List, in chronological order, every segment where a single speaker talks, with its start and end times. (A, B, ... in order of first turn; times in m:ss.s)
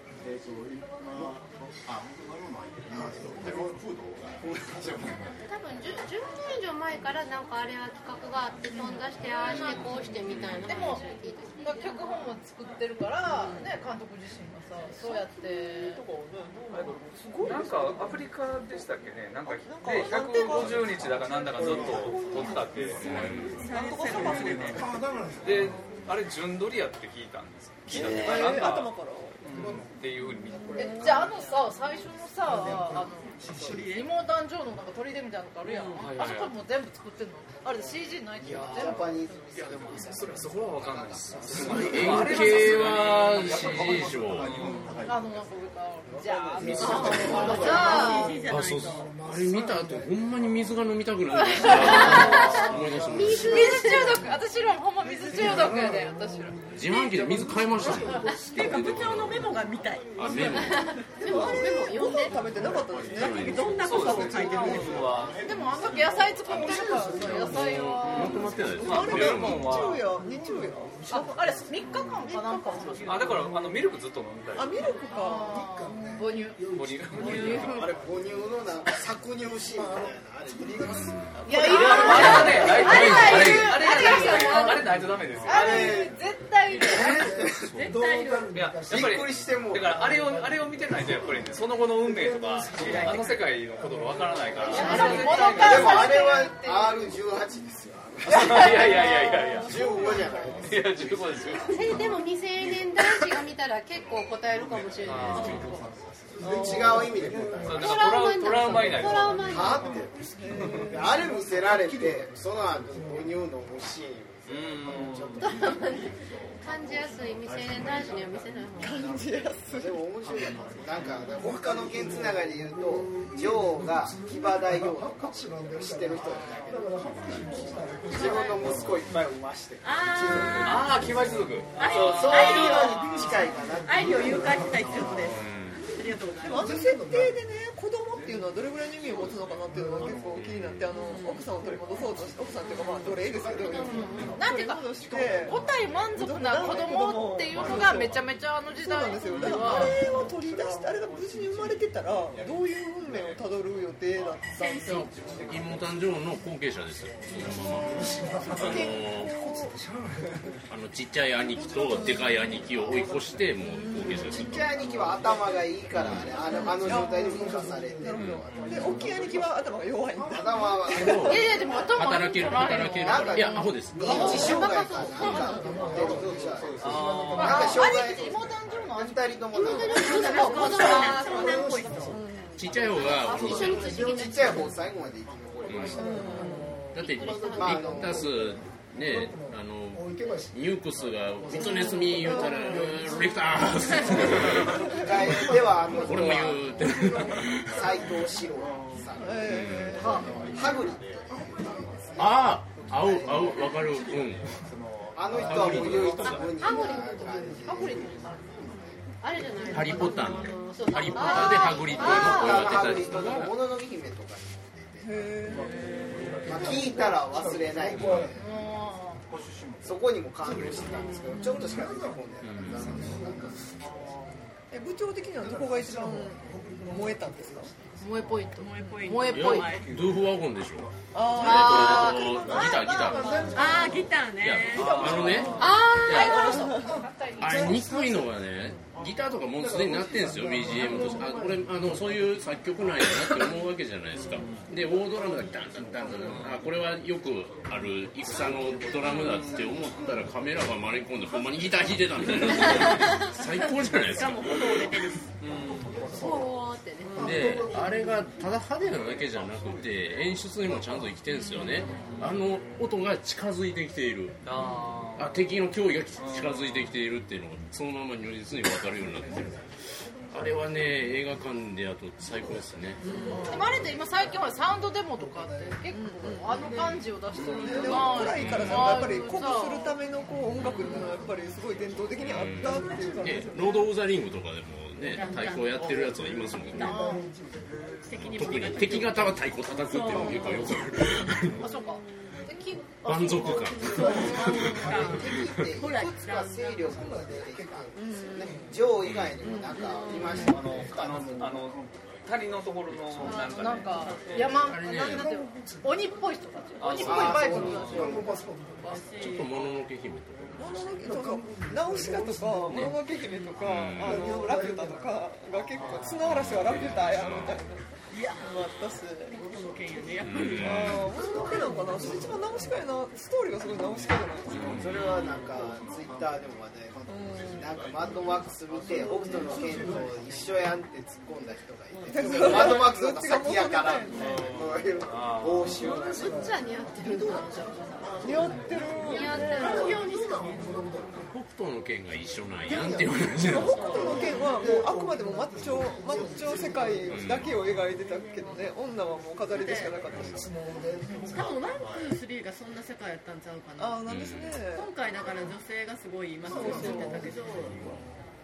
0:00.2-0:05.4 A
0:03.1-0:03.7 B
0:04.4-0:04.9 C
0:05.4-0:11.9 D
0:08.7-0:10.1 E
0:09.4-0:10.6 A
0:10.6-0:11.0 E
0:11.6-0:16.0 E
0:13.3-0:13.7 F
0:15.0-0:18.8 F
0:16.7-0:23.6 G
0:19.4-0:24.9 F
0:20.5-0:23.6 A
0:23.0-0:23.4 H
0:23.4-0:24.9 I
0:24.7-0:26.0 B
0:25.4-0:31.0 G
0:27.9-0:29.6 F
0:29.5-0:29.9 B
0:30.4-0:31.5 F
0:30.7-0:31.3 C
0:30.8-0:40.0 E
0:32.4-0:34.0 B
0:33.4-0:33.8 C
0:33.5-0:34.1 I
0:35.6-0:36.1 I
0:36.0-0:36.6 G
0:38.4-0:42.3 C
0:38.5-0:44.9 G
0:41.2-0:44.7 H
0:41.5-0:45.7 A
0:44.6-0:45.0 I
0:45.0-0:48.4 E
0:46.2-0:50.8 B
0:46.5-0:48.0 C
0:47.2-0:49.1 I
0:48.4-0:54.0 H
0:51.4-0:52.7 E
0:51.4-0:54.4 B
0:53.1-0:54.2 D
0:53.3-0:56.7 E
0:55.0-1:01.0 B
0:56.7-0:59.5 H
0:57.8-0:58.2 E
0:58.5-1:00.6 I
1:00.2-1:01.7 H
1:01.1-1:02.5 D
1:01.1-1:05.0 F
1:02.6-1:04.1 H
1:03.1-1:04.9 I
1:03.8-1:05.4 G
1:04.2-1:06.6 A
1:04.4-1:05.1 B
1:05.4-1:08.7 E
1:05.7-1:09.0 B
1:07.3-1:09.9 H
1:08.0-1:10.0 G
1:08.8-1:11.4 F
1:10.0-1:12.3 B
1:11.1-1:13.4 E
1:12.3-1:13.0 F
1:12.9-1:13.3 I
1:13.0-1:14.8 G
1:14.5-1:15.6 F
1:14.8-1:18.6 B
1:15.1-1:16.6 E
1:16.7-1:17.9 G
1:17.2-1:17.9 E
1:17.7-1:21.1 C
1:19.8-1:26.0 B
1:20.9-1:21.5 H
1:21.3-1:22.8 F
1:21.4-1:24.9 E
1:21.6-1:26.0 G
1:22.1-1:23.8 H
1:25.4-1:26.1 C
1:25.4-1:27.4 E
1:26.8-1:27.7 C
1:26.8-1:35.5 B
1:27.8-1:28.5 I
1:28.5-1:36.3 G
1:28.9-1:30.1 C
1:32.8-1:33.3 I
1:34.7-1:37.1 E
1:34.7-1:41.5 C
1:34.7-1:35.3 I
1:35.0-1:35.8 D
1:38.3-1:39.8 G
1:38.5-1:40.4 E
1:39.8-1:40.8 B
1:40.6-1:41.8 G
1:40.9-1:42.8 A
1:41.6-1:45.8 D
1:43.9-1:47.7 A
1:45.0-1:45.7 G
1:45.3-1:45.7 I
1:46.4-1:47.9 B
1:46.4-1:48.1 C
1:47.6-1:49.4 G
1:47.8-1:50.0 D
1:48.7-1:53.4 B
1:48.8-1:49.2 A
1:49.4-1:50.1 C
1:50.3-1:51.1 F
1:50.9-1:55.5 C
1:54.5-1:55.5 G
1:55.4-1:59.0 D
1:56.2-2:01.3 A
1:58.8-2:00.0 F
1:59.7-2:06.8 C
2:01.3-2:08.9 B
2:07.2-2:07.6 A
2:08.0-2:10.7 C
2:08.6-2:09.1 A
2:09.8-2:11.1 I
2:10.1-2:11.6 B
2:10.6-2:12.6 G
2:11.8-2:13.3 I
2:11.9-2:14.6 C
2:12.3-2:15.4 B
2:13.8-2:15.4 I
2:15.3-2:15.8 H
2:15.9-2:16.7 I
2:16.4-2:28.2 F
2:16.4-2:17.4 B
2:18.1-2:20.3 A
2:19.7-2:20.3 B
2:20.4-2:20.9 H
2:20.9-2:21.4 I
2:21.5-2:22.6 A
2:23.1-2:26.1 A
2:23.7-2:24.3 D
2:23.9-2:30.0 E
2:26.6-2:26.9 A
2:27.5-2:28.3 A
2:28.8-2:35.1 F
2:29.6-2:29.9 B
2:29.8-2:36.0 A
2:34.8-2:39.4 H
2:37.3-2:40.6 B
2:38.2-2:39.8 F
2:40.7-2:44.6 H
2:41.6-2:43.2 B
2:41.8-2:42.5 F
2:43.7-2:44.2 F
2:44.0-2:49.6 B
2:44.2-2:49.5 C
2:45.9-2:46.3 H
2:46.5-2:51.3 F
2:50.1-2:50.7 B
2:50.3-2:51.5 C
2:50.9-2:54.5 H
2:51.2-2:55.9 E
2:53.0-3:00.2 C
2:53.8-2:58.4 B
2:54.3-2:55.8 D
2:55.9-2:57.4 A
2:56.8-2:57.8 G
2:57.4-3:01.6 E
2:59.5-3:01.8 D
2:59.9-3:02.2 I
3:00.4-3:05.0 B
3:02.0-3:02.8 F
3:02.6-3:04.0 H
3:02.7-3:04.2 E
3:03.2-3:04.6 D
3:04.0-3:06.4 C
3:05.7-3:06.0 H
3:05.9-3:17.4 B
3:06.0-3:06.8 F
3:06.9-3:14.8 H
3:07.0-3:07.8 D
3:07.5-3:08.3 C
3:12.2-3:13.0 F
3:14.2-3:23.6 C
3:15.8-3:17.8 H
3:18.6-3:22.3 A
3:19.2-3:20.1 F
3:19.5-3:20.0 H
3:20.0-3:20.2 E
3:22.2-3:24.6 H
3:23.3-3:26.6 A
3:25.1-3:28.7 C
3:25.3-3:26.5 H
3:26.6-3:28.1 B
3:26.6-3:27.2 D
3:26.6-3:27.0 E
3:27.6-3:28.5 E
3:29.2-3:33.0 D
3:29.7-3:33.6 H
3:29.7-3:30.0 E
3:31.1-3:31.4 E
3:31.8-3:32.1 A
3:31.9-3:35.4 C
3:35.0-3:35.7 F
3:35.4-3:38.4 A
3:35.8-3:36.1 I
3:36.4-3:38.4 B
3:36.4-3:38.4 C
3:38.3-3:39.2 E
3:39.2-3:40.8 A
3:39.8-3:43.6 C
3:40.4-3:44.4 B
3:42.4-3:42.9 H
3:43.8-3:44.3 A
3:44.7-3:47.7 F
3:45.3-3:48.4 B
3:48.0-3:49.8 E
3:48.6-3:49.9 I
3:49.2-3:53.6 H
3:49.7-3:50.9 A
3:51.1-3:52.3 F
3:51.4-3:53.9 E
3:51.9-3:54.2 B
3:53.5-3:55.5 I
3:54.3-3:56.4 H
3:54.7-3:55.7 G
3:54.8-3:55.5 F
3:55.5-3:56.7 D
3:55.6-3:58.0 E
3:56.2-3:56.9 F
3:56.6-3:58.4 B
3:57.4-4:14.7 H
3:59.5-4:02.4 B
4:04.3-4:04.6 G
4:09.1-4:10.3 B
4:09.1-4:09.7 G
4:14.1-4:15.2 I
4:15.4-4:16.1 G
4:15.7-4:16.4 A
4:16.1-4:16.4 B
4:16.2-4:17.3 D
4:17.1-4:17.4 I
4:17.1-4:18.6 B
4:17.2-4:24.4 H
4:21.3-4:21.8 I
4:24.4-4:25.4 G
4:25.1-4:29.6 H
4:26.2-4:26.9 G
4:29.0-4:29.5 B
4:30.3-4:33.1 H
4:30.3-4:30.9 B
4:32.4-4:35.8 B
4:33.0-4:33.4 I
4:33.1-4:33.4 F
4:33.4-4:40.0 E
4:35.9-4:36.6 F
4:36.5-4:38.0 B
4:37.4-4:43.8 F
4:37.5-4:38.0 I
4:38.2-4:39.0 H
4:40.6-4:41.1 I
4:42.2-4:46.9 H
4:42.9-4:43.4 B
4:45.1-4:46.0 I
4:45.9-4:49.3 B
4:46.7-4:47.2 I
4:46.8-4:47.2 E
4:48.0-4:50.8 I
4:48.2-4:51.8 H
4:51.5-4:54.6 E
4:53.0-4:54.8 H
4:53.2-4:55.4 B
4:53.9-4:56.8 I
4:54.7-5:01.7 C
4:55.4-4:55.7 H
4:56.8-4:58.9 B
4:57.9-4:58.6 F
4:59.0-4:59.4 H
4:59.4-5:00.0 F
5:00.0-5:00.5 I
5:00.3-5:04.7 G
5:03.2-5:09.0 E
5:03.7-5:04.6 I
5:04.6-5:06.1 B
5:04.7-5:05.3 H
5:06.8-5:08.2 G
5:07.0-5:08.3 C
5:07.1-5:09.0 B
5:08.8-5:09.7 I
5:09.1-5:10.9 H
5:10.6-5:19.4 F
5:10.9-5:13.1 B
5:12.7-5:12.9 H
5:13.2-5:13.6 I
5:13.6-5:14.4 H
5:14.0-5:16.1 B
5:16.2-5:17.6 H
5:18.1-5:21.1 I
5:20.2-5:21.1 H
5:20.6-5:24.8 F
5:21.1-5:22.8 B
5:24.5-5:25.0 H
5:24.7-5:25.9 A
5:24.7-5:36.4 C
5:27.1-5:27.7 F
5:27.5-5:28.9 A
5:29.0-5:30.1 B
5:31.9-5:32.5 I
5:32.1-5:34.3 F
5:34.1-5:36.0 G
5:35.6-5:41.4 B
5:35.9-5:38.1 D
5:38.1-5:39.9 F
5:39.0-5:40.0 D
5:39.0-5:40.8 I
5:41.3-5:43.9 H
5:42.6-5:47.5 B
5:43.5-5:50.4 F
5:43.6-5:44.2 I
5:45.6-5:45.9 H
5:47.1-5:47.6 H
5:49.5-5:50.0 I
5:49.6-5:51.7 B
5:50.2-5:50.4 H
5:51.2-5:54.1 I
5:53.8-5:54.9 F
5:54.0-5:54.6 H
5:54.6-5:57.9 I
5:56.4-5:58.0 B
5:56.5-5:57.2 F